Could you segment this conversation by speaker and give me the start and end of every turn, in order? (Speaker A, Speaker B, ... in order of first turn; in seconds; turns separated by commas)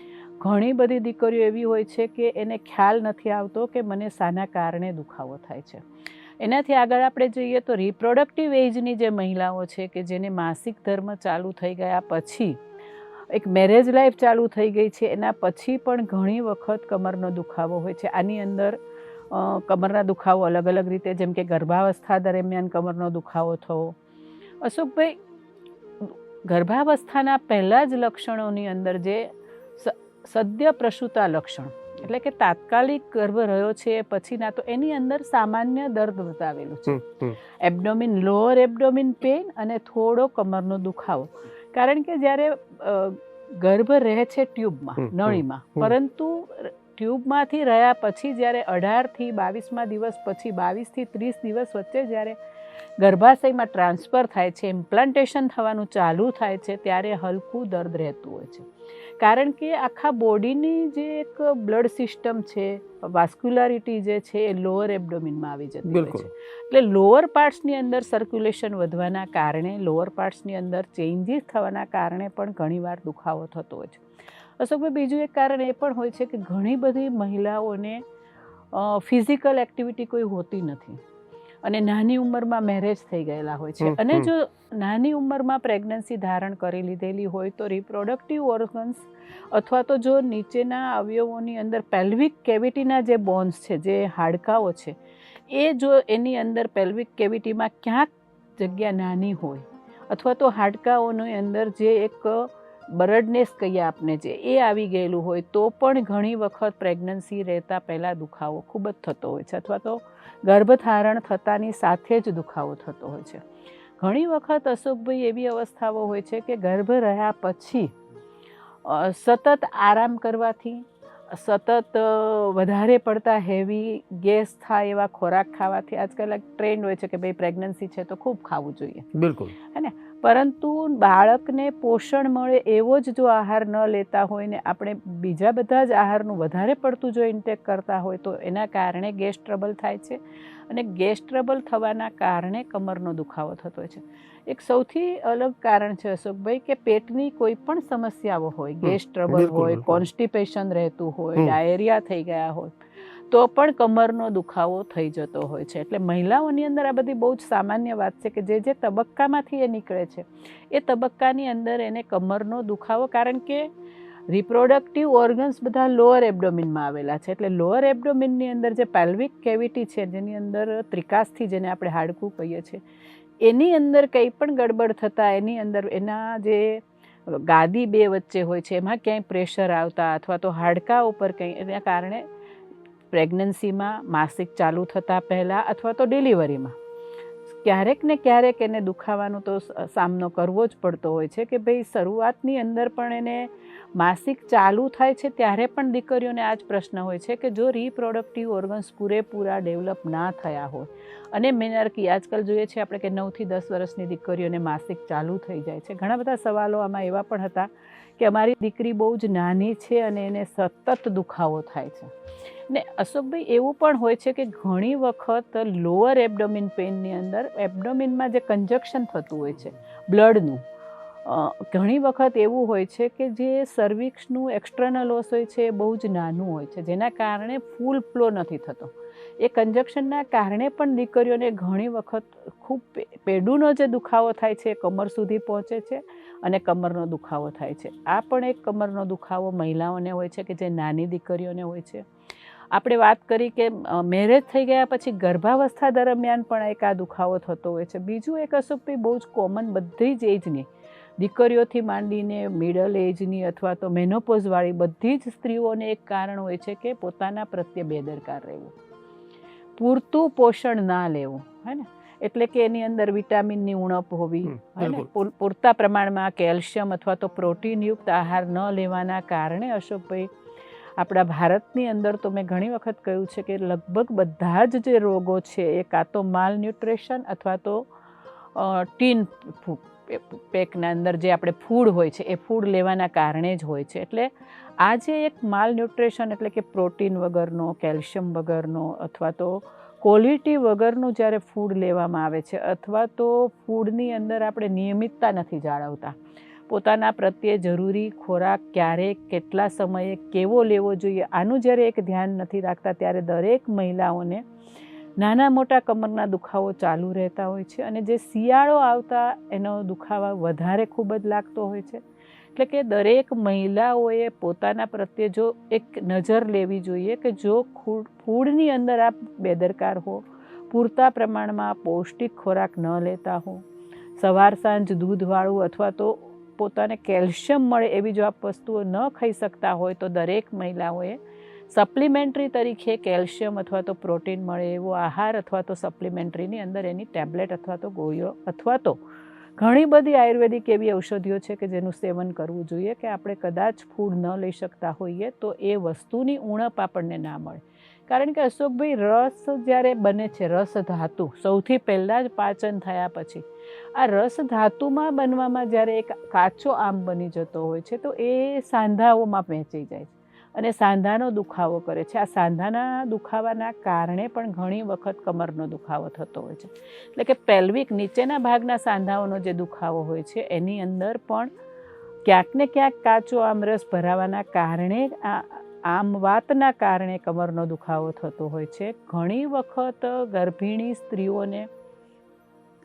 Speaker A: 0.4-5.8, Speaker A: 6.4-12.6, Speaker A: 13.3-18.8, Speaker A: 19.3-24.0, Speaker A: 24.6-25.2, Speaker A: 26.0-37.0, Speaker B: 36.9-37.4, Speaker A: 37.6-52.4, Speaker B: 45.0-46.0, Speaker A: 53.0-58.7, Speaker A: 59.2-74.0, Speaker B: 65.9-66.3, Speaker A: 74.6-78.0, Speaker A: 78.7-81.0, Speaker A: 81.6-95.0, Speaker B: 83.8-84.3, Speaker A: 95.5-113.4, Speaker A: 114.0-118.0, Speaker A: 118.8-129.1, Speaker B: 129.1-129.6, Speaker A: 129.6-140.2, Speaker A: 140.7-152.8, Speaker B: 148.8-150.1, Speaker A: 153.3-163.7, Speaker A: 164.3-172.8, Speaker A: 173.4-182.3, Speaker A: 183.1-186.8, Speaker A: 187.5-212.1, Speaker A: 212.7-220.7, Speaker A: 221.2-242.1, Speaker A: 242.7-258.7, Speaker A: 259.8-270.3, Speaker B: 264.5-265.1, Speaker A: 271.0-277.9, Speaker A: 278.6-284.3, Speaker A: 284.8-296.2, Speaker A: 296.7-304.4, Speaker A: 305.2-312.0, Speaker A: 312.6-323.6, Speaker A: 324.2-331.2, Speaker A: 331.7-339.0, Speaker A: 339.6-371.5, Speaker A: 372.2-381.7